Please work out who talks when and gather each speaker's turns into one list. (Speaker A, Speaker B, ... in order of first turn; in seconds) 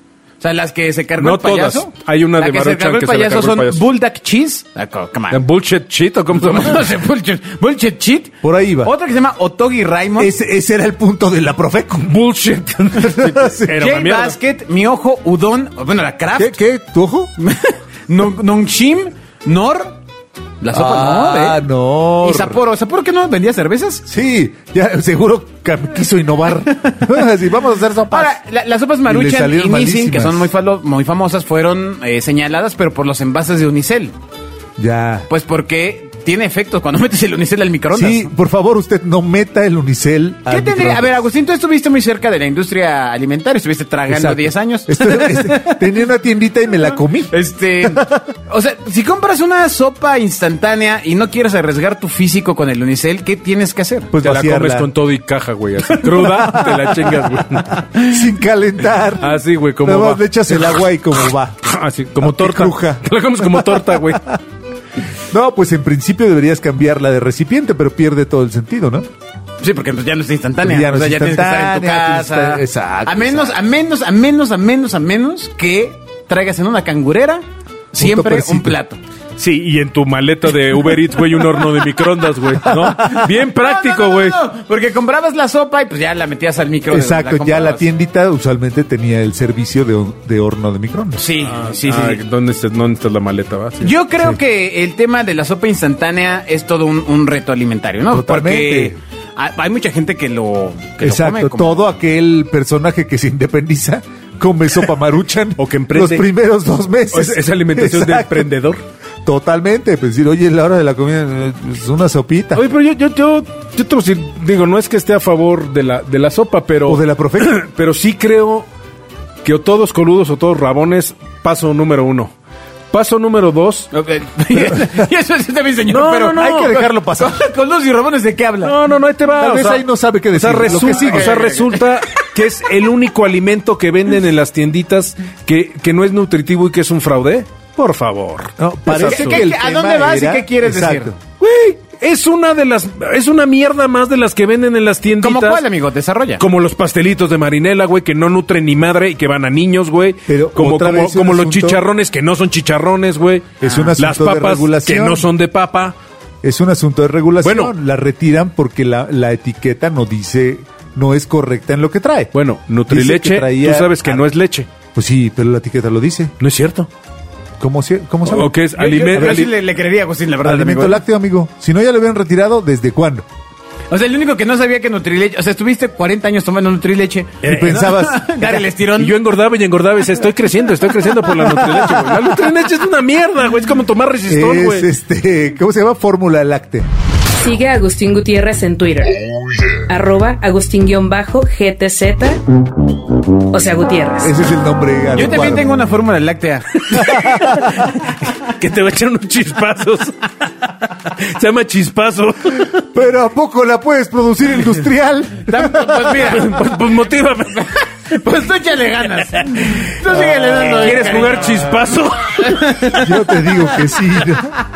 Speaker A: 0.4-5.4, 6.3-10.3, 13.7-16.6, 17.4-20.0, 20.6-21.6, 22.2-24.0, 28.1-34.1, 35.3-38.3, 40.5-45.8, 47.3-54.1, 55.9-56.6, 58.0-58.2, 69.6-79.0, 82.9-87.9, 91.2-92.2, 93.8-101.8, 123.9-128.8, 130.7-132.1, 138.9-141.1, 145.2-146.4, 153.6-153.9, 168.7-171.0, 173.9-179.2, 195.1-197.3, 205.5-206.6, 208.1-211.8, 212.3-213.9
Speaker B: 1.2-3.8, 5.3-6.9, 12.0-14.4, 54.2-57.8, 59.2-60.8, 61.6-64.3, 79.4-84.4, 91.4-93.9, 105.6-106.3, 107.1-108.8, 112.5-118.7, 119.4-122.3, 122.9-123.9, 125.9-126.8, 128.6-139.4, 141.4-145.6, 146.4-155.9, 157.4-157.7, 162.3-164.7, 166.4-166.9, 168.2-169.5, 177.4-177.9, 178.9-184.9, 196.9-202.8, 206.1-207.8, 209.4-209.7, 210.2-212.8
Speaker C: 8.4-8.9, 10.2-12.1, 13.0-13.8, 16.4-17.3, 20.7-22.6, 24.1-28.4, 29.0-30.5, 34.8-35.3, 37.9-41.1, 44.1-48.3, 54.1-54.9, 56.2-56.8, 58.0-61.6, 62.2-64.4, 65.3-69.1, 70.6-73.5, 78.0-78.8, 86.9-91.2, 98.1-99.0, 101.0-108.5, 109.2-112.7, 116.8-117.6, 126.3-127.4, 129.4-131.4, 138.6-141.2, 150.3-151.8, 153.6-155.3, 156.4-162.3, 162.9-164.2, 164.9-166.3, 167.6-168.5, 169.1-169.4, 170.4-173.2, 177.4-178.7, 184.3-186.9, 194.2-195.7, 197.1-197.7, 202.9-206.2, 212.9-214.6
Speaker D: 187.3-189.2, 189.8-192.4, 193.5-194.4